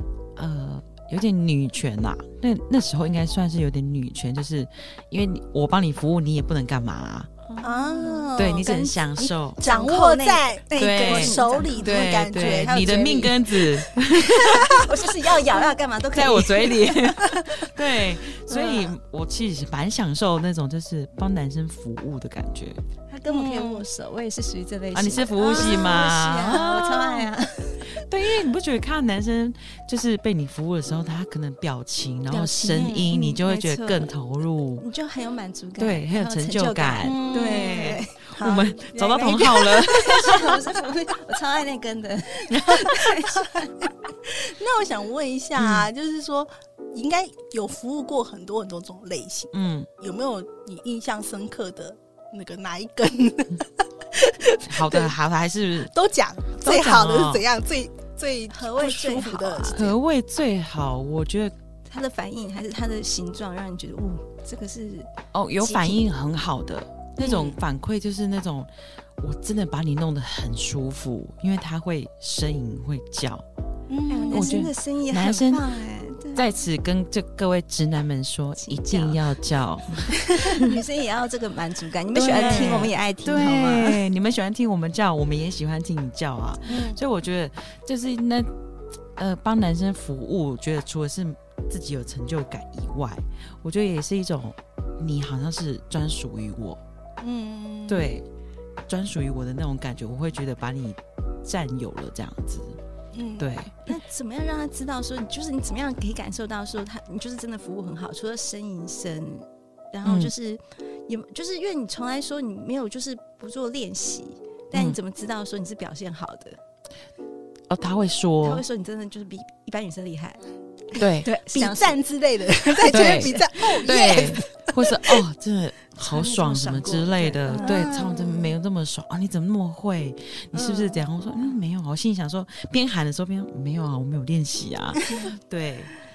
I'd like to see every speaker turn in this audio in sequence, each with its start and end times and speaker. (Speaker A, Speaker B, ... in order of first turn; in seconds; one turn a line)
Speaker A: 0.3-7.3
Speaker B: 7.5-9.0
Speaker C: 7.6-13.1
Speaker A: 8.3-9.6
Speaker B: 9.6-13.4
Speaker A: 10.8-14.8
Speaker C: 14.2-14.9
Speaker B: 14.5-17.7
Speaker A: 16.1-22.8
Speaker B: 18.5-18.9
Speaker B: 23.1-27.9
Speaker C: 23.3-23.8
Speaker A: 24.9-27.3
Speaker A: 27.8-34.8
Speaker B: 32.3-34.1
Speaker C: 32.7-33.2
Speaker B: 34.8-38.2
Speaker A: 35.8-40.6
Speaker C: 37.0-40.4
Speaker B: 39.8-43.9
Speaker A: 42.5-42.9
Speaker C: 42.7-43.7
Speaker C: 44.2-55.1
Speaker A: 45.6-45.9
Speaker A: 49.5-49.9
Speaker A: 54.6-55.9
Speaker C: 55.8-59.9
Speaker A: 56.6-57.4
Speaker B: 58.5-59.9
Speaker A: 59.7-61.5
Speaker B: 61.9-65.1
Speaker A: 65.3-73.4
Speaker B: 65.6-66.0
Speaker C: 67.2-67.6
Speaker C: 73.9-74.7
Speaker B: 74.1-76.5
Speaker A: 74.3-75.6
Speaker A: 76.3-80.7
Speaker B: 78.6-79.2
Speaker B: 80.2-84.0
Speaker A: 82.1-88.5
Speaker C: 82.2-82.9
Speaker C: 86.7-87.0
Speaker A: 89.2-96.8
Speaker C: 97.2-98.2
Speaker A: 97.9-98.2
Speaker A: 98.9-102.8
Speaker C: 103.1-103.5
Speaker A: 103.4-103.8
Speaker B: 103.8-116.6
Speaker A: 110.0-110.3
Speaker A: 117.7-118.6
Speaker B: 118.4-120.4
Speaker A: 120.9-121.3
Speaker B: 121.2-122.0
Speaker C: 121.5-125.2
Speaker B: 122.7-124.4
Speaker A: 122.9-135.9
Speaker B: 126.0-128.0
Speaker C: 127.6-128.6
Speaker C: 130.6-131.0